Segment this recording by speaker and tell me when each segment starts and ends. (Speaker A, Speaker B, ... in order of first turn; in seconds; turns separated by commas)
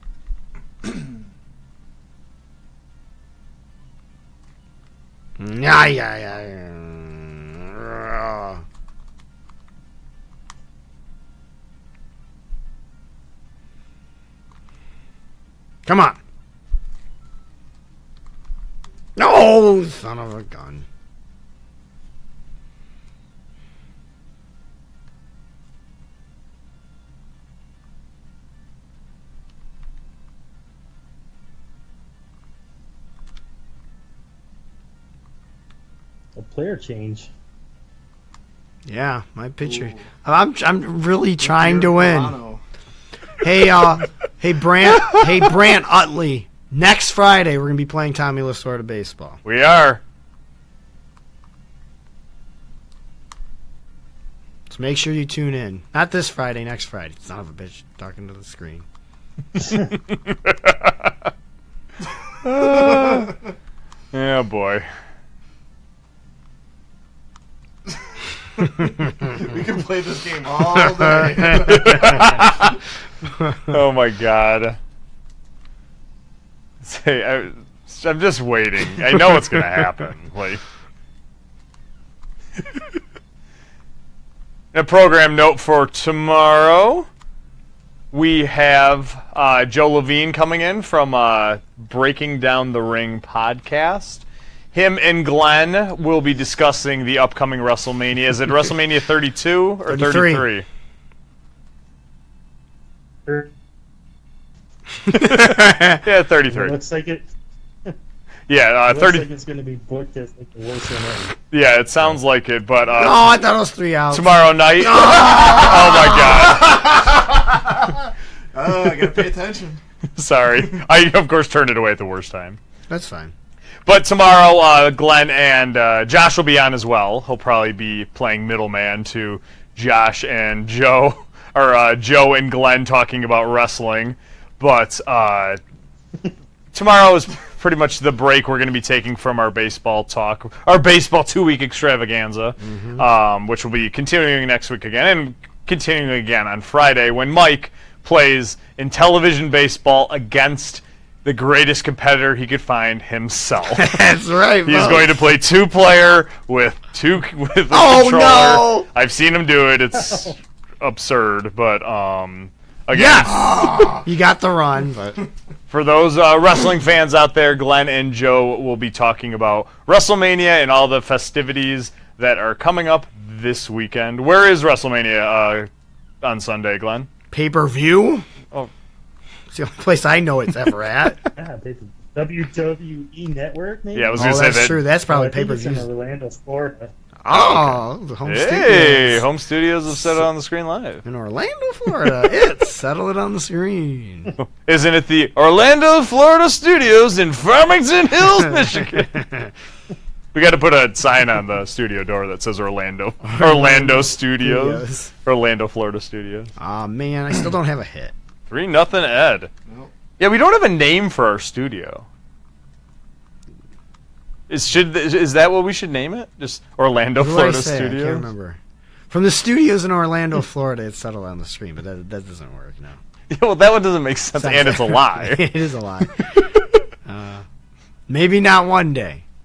Speaker A: 5.4-8.6, Speaker A: 15.8-16.2, Speaker A: 19.1-20.8, Speaker B: 36.4-37.3, Speaker A: 38.9-42.4, Speaker C: 39.6-40.1, Speaker C: 41.4-42.6, Speaker A: 43.4-49.4, Speaker D: 49.4-50.0, Speaker A: 54.7-58.8, Speaker D: 60.1-61.1, Speaker D: 62.4-63.4, Speaker C: 62.6-63.3, Speaker D: 64.1-64.9, Speaker C: 68.6-72.6, Speaker D: 71.5-72.8, Speaker D: 73.7-74.8, Speaker D: 76.8-80.6, Speaker D: 84.7-87.1, Speaker D: 88.1-100.7, Speaker A: 99.8-100.5, Speaker B: 103.2-103.5, Speaker D: 105.1-106.8, Speaker A: 105.2-106.0, Speaker B: 106.5-107.3, Speaker D: 108.5-109.3, Speaker B: 108.9-111.3, Speaker D: 111.5-113.3, Speaker A: 112.9-116.1, Speaker D: 114.1-116.9, Speaker C: 116.6-119.8, Speaker D: 120.2-122.6, Speaker A: 122.9-123.3, Speaker D: 123.8-135.6, Speaker D: 136.7-154.0, Speaker A: 142.7-143.0, Speaker A: 153.7-155.2, Speaker D: 154.7-163.4, Speaker A: 157.7-158.9, Speaker A: 162.9-165.2, Speaker C: 163.4-164.0, Speaker D: 165.7-175.7, Speaker D: 176.2-177.1, Speaker A: 177.3-178.2, Speaker A: 179.5-181.2, Speaker B: 181.3-184.3, Speaker D: 183.9-184.8, Speaker A: 184.2-185.9, Speaker B: 185.1-186.9, Speaker A: 187.2-189.2, Speaker D: 187.3-191.0, Speaker A: 191.0-194.3, Speaker D: 194.4-199.1, Speaker A: 199.0-199.5, Speaker D: 200.3-206.5, Speaker A: 203.2-205.1, Speaker A: 206.6-208.1, Speaker D: 208.5-209.5, Speaker C: 209.7-209.9, Speaker D: 210.2-212.1, Speaker D: 214.5-218.3, Speaker A: 217.2-218.6, Speaker A: 219.1-223.0, Speaker D: 223.3-225.5, Speaker A: 224.3-226.4, Speaker A: 227.0-227.4, Speaker A: 228.1-229.2